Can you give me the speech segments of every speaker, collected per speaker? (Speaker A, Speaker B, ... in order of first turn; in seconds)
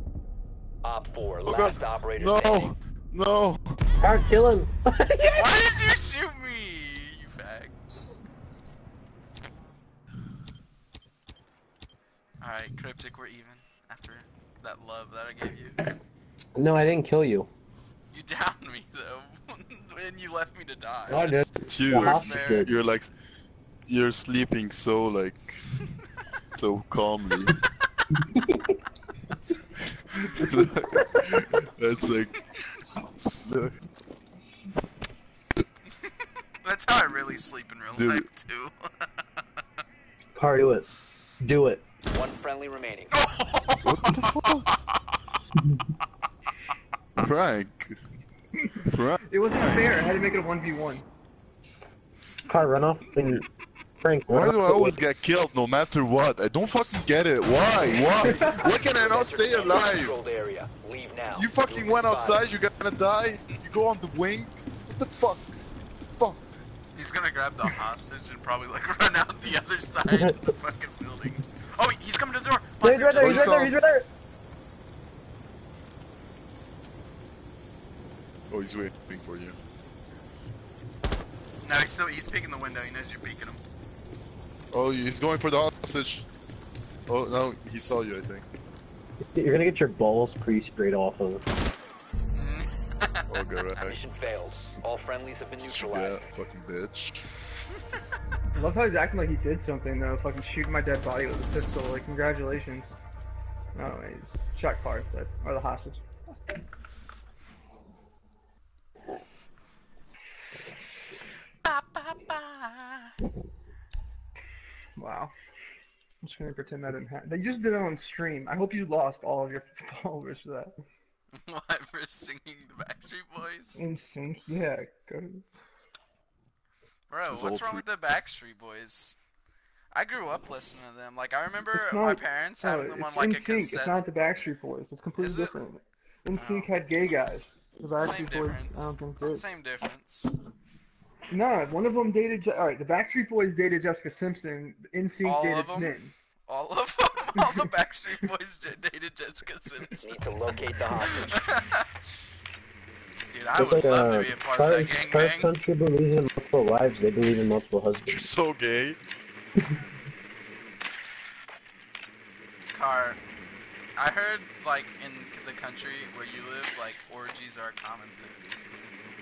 Speaker A: 0.8-2.7, 42.1-43.1, 58.4-62.4, 93.8-96.2, 150.0-151.4
Speaker B: 1.4-3.8, 21.6-23.1, 23.9-25.6, 26.6-27.6, 29.8-32.4, 33.4-33.8, 37.9-38.2, 43.8-44.7, 47.2-48.0, 48.8-49.9, 54.3-60.2, 61.3-65.6, 73.1-73.8, 78.5-79.6, 84.7-86.2, 87.1-88.5, 93.3-94.0, 95.6-97.3, 127.3-127.8, 158.1-159.0
Speaker C: 4.0-5.5, 16.6-17.5, 21.1-22.7, 28.3-28.8, 40.4-40.9, 41.4-41.8, 52.5-53.5, 54.0-55.0, 70.1-70.4, 72.8-74.1, 89.3-91.4, 153.6-158.3
Speaker D: 5.3-8.0, 12.4-15.8, 18.1-22.7, 36.6-39.4, 43.1-45.2, 66.9-73.7, 81.6-83.6, 92.3-93.4, 111.6-113.2, 121.3-123.8, 127.1-129.2, 129.9-133.9, 135.2-135.6, 136.3-136.7, 138.0-140.3, 145.2-150.1, 151.1-151.8, 153.3-155.6, 162.7-163.2, 164.0-168.4
Speaker E: 48.7-51.0, 98.5-102.9, 103.7-106.0, 115.0-115.3, 116.2-120.7, 123.8-125.4, 131.7-139.4, 141.3-146.1, 147.4-147.7